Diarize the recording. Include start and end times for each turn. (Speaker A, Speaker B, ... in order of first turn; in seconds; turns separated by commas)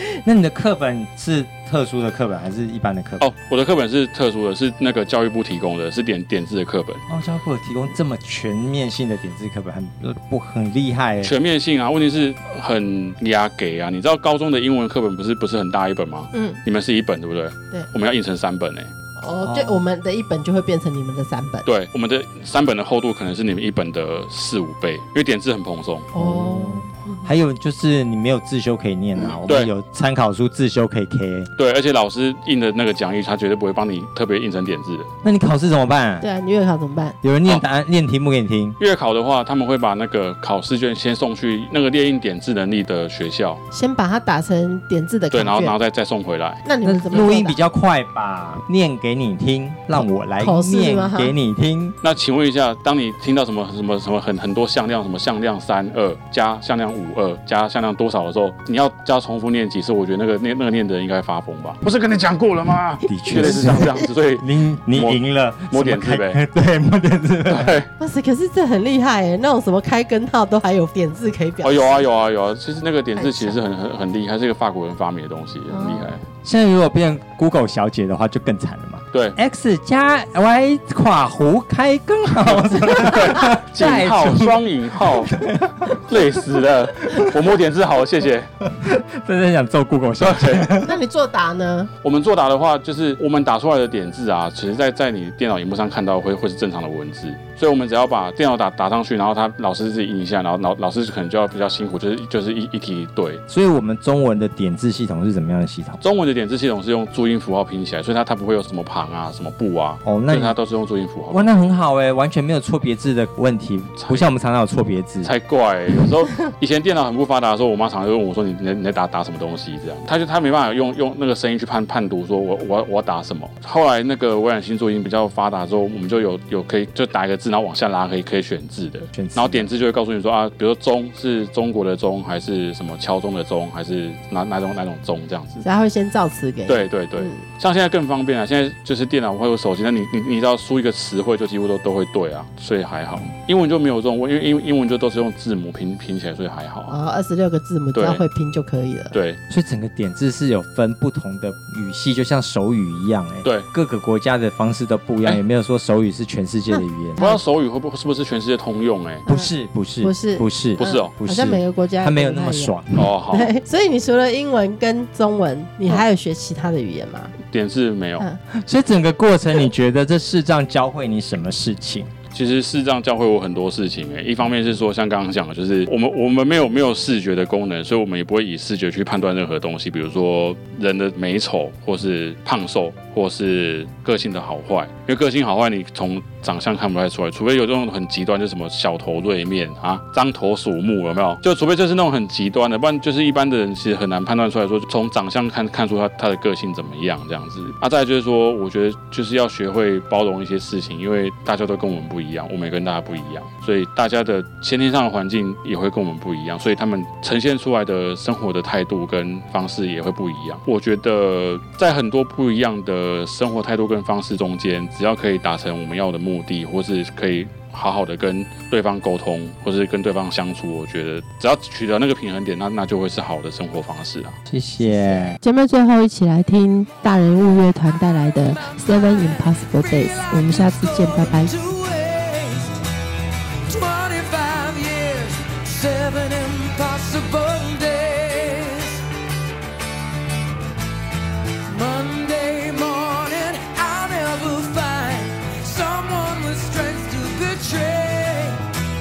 Speaker A: 0.2-3.2, Speaker B: 3.2-7.0, Speaker A: 7.1-11.3, Speaker B: 11.2-18.9, Speaker C: 16.3-16.6, Speaker C: 19.2-21.6, Speaker A: 19.4-19.8, Speaker B: 21.6-26.1, Speaker C: 26.1-27.3, Speaker A: 26.1-31.5, Speaker B: 29.4-29.7, Speaker B: 31.6-35.1, Speaker A: 35.2-36.2, Speaker C: 36.2-37.2, Speaker A: 37.2-38.8, Speaker B: 38.8-43.6, Speaker C: 43.7-45.7, Speaker B: 45.3-46.6, Speaker C: 46.6-47.6, Speaker A: 46.8-52.0, Speaker C: 50.4-51.3, Speaker B: 52.0-65.2, Speaker A: 63.1-67.8, Speaker C: 63.4-63.9, Speaker B: 65.7-66.4, Speaker B: 67.5-67.9, Speaker C: 68.0-72.0, Speaker B: 71.6-76.2, Speaker C: 73.2-73.6, Speaker C: 75.7-76.1, Speaker A: 76.4-86.2, Speaker B: 82.5-88.5, Speaker A: 88.6-90.9, Speaker B: 90.2-90.7, Speaker C: 90.8-91.9, Speaker B: 92.0-103.4, Speaker A: 103.5-106.0, Speaker B: 106.0-111.5, Speaker A: 110.0-110.5, Speaker A: 111.3-115.3, Speaker B: 114.0-114.3, Speaker B: 115.2-135.6, Speaker A: 129.1-129.7, Speaker C: 135.6-137.4, Speaker B: 136.7-146.9, Speaker C: 146.9-149.1, Speaker B: 147.9-148.2, Speaker B: 149.1-149.4, Speaker A: 149.5-157.3, Speaker C: 156.7-157.4, Speaker B: 157.2-159.2, Speaker C: 159.2-162.8, Speaker A: 159.3-163.0, Speaker B: 160.8-161.1, Speaker B: 162.9-163.5, Speaker C: 163.3-167.3, Speaker B: 167.5-168.2, Speaker A: 168.5-172.1, Speaker B: 172.3-224.3, Speaker A: 224.5-225.4, Speaker D: 225.4-231.5, Speaker E: 228.3-232.8, Speaker E: 233.7-239.0, Speaker E: 241.6-248.6